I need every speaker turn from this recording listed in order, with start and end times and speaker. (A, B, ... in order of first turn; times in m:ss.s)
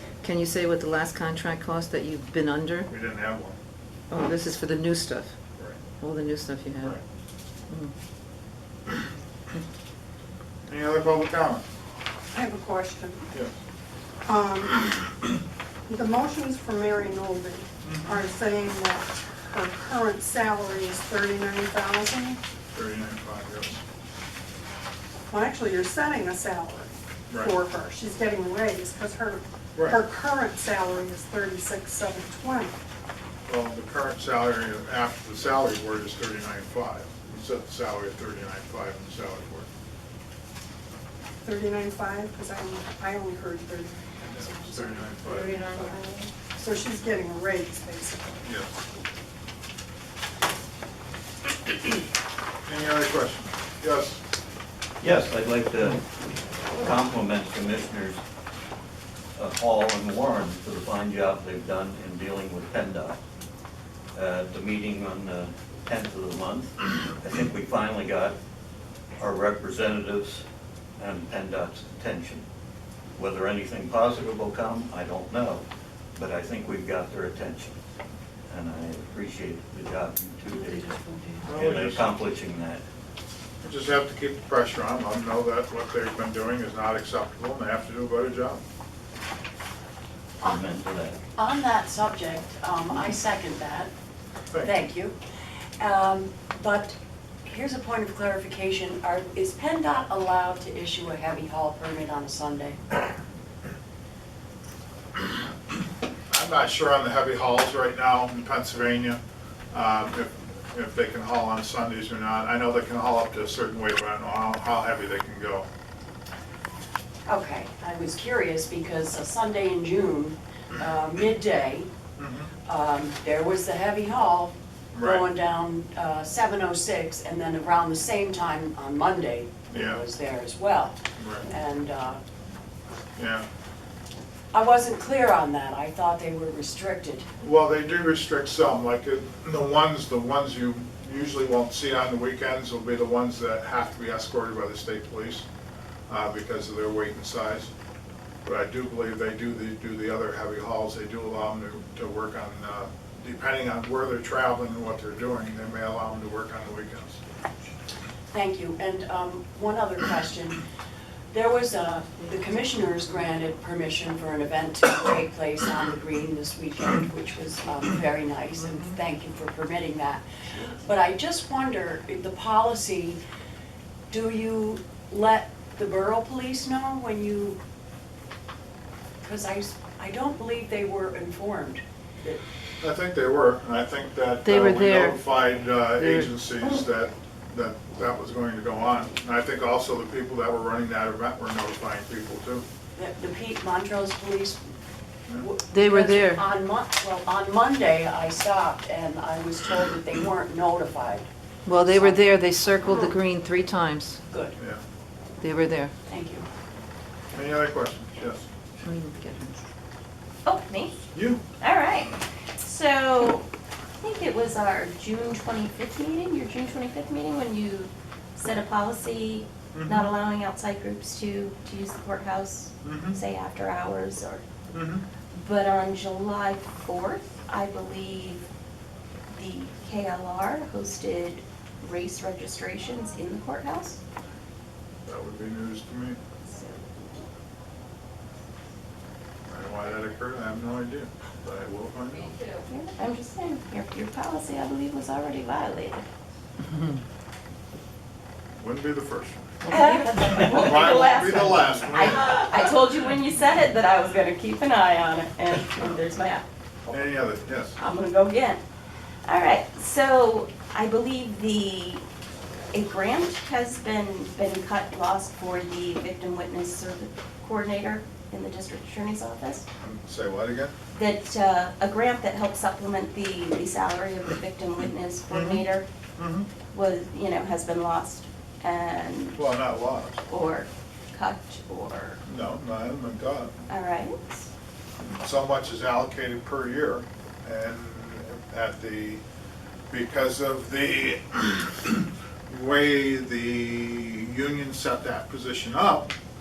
0:00.2-0:02.9 A
0:02.9-0:03.6 B
0:04.1-0:05.4 A
0:06.0-0:07.0 A
0:10.7-0:11.6 B
0:12.3-0:13.3 C
0:14.3-0:15.1 C
0:15.9-0:22.4 C
0:17.8-0:18.2 B
0:22.7-0:23.8 B
0:25.3-0:32.7 C
0:27.3-0:27.6 B
0:29.8-0:30.0 B
0:33.5-0:39.7 B
0:41.4-0:48.4 C
0:44.2-0:45.9 B
0:48.4-0:48.7 B
0:52.7-0:54.2 B
0:55.0-0:56.0 D
0:56.7-0:58.2 D
0:59.4-1:03.2 D
1:04.1-1:08.4 D
1:09.2-1:10.4 D
1:11.0-1:12.4 D
1:13.1-1:15.6 D
1:16.1-1:17.8 D
1:18.5-1:22.8 D
1:21.1-1:21.4 A
1:21.4-1:22.1 B
1:23.6-1:28.6 B
1:30.4-1:31.2 D
1:31.4-1:33.9 E
1:34.6-1:35.2 E
1:35.8-1:36.9 E
1:37.4-1:42.8 E
1:46.3-1:49.2 B
1:49.7-1:55.7 B
1:57.2-2:01.9 E
2:02.2-2:02.5 B
2:02.7-2:12.2 E
2:04.9-2:05.2 B
2:09.7-2:10.0 B
2:11.2-2:11.5 B
2:13.2-2:13.4 B
2:14.5-2:17.2 E
2:17.4-2:25.4 B
2:26.1-2:27.7 B
2:28.4-2:37.2 B
2:38.3-2:40.6 E
2:41.3-2:53.2 E
2:54.1-2:57.6 E
2:59.2-3:02.4 E
3:02.8-3:12.6 B
3:04.4-3:05.2 A
3:05.9-3:06.3 A
3:13.0-3:14.6 E
3:15.3-3:21.3 E
3:15.7-3:16.4 A
3:21.7-3:24.2 A
3:21.8-3:23.1 E
3:24.3-3:24.5 E
3:25.4-3:25.9 A
3:26.1-3:26.5 E
3:27.3-3:28.5 B
3:28.8-3:29.6 A
3:30.4-3:31.0 F
3:31.1-3:31.4 B
3:31.6-3:33.4 F
3:34.0-3:44.4 F
3:39.7-3:40.1 B
3:42.8-3:43.2 B
3:44.7-3:45.0 B
3:45.3-3:48.4 F
3:49.3-3:54.0 F
3:55.1-3:56.2 B
3:56.4-3:57.2 F
3:59.5-4:02.3 B
4:02.6-4:06.1 F
4:08.6-4:09.5 B
4:09.7-4:16.4 F
4:09.7-4:10.8 E
4:10.4-4:12.5 B
4:16.9-4:17.8 B
4:17.8-4:18.6 F
4:19.2-4:22.0 F
4:22.7-4:29.6 F
4:29.8-4:30.7 B
4:30.9-4:35.9 F
4:35.3-4:35.6 B
4:36.2-4:36.5 B
4:36.7-4:39.5 F
4:39.4-4:40.2 B
4:40.3-4:42.2 F
4:42.2-4:43.5 B
4:43.7-4:44.4 F
4:45.1-4:49.2 B
4:49.9-4:56.1 B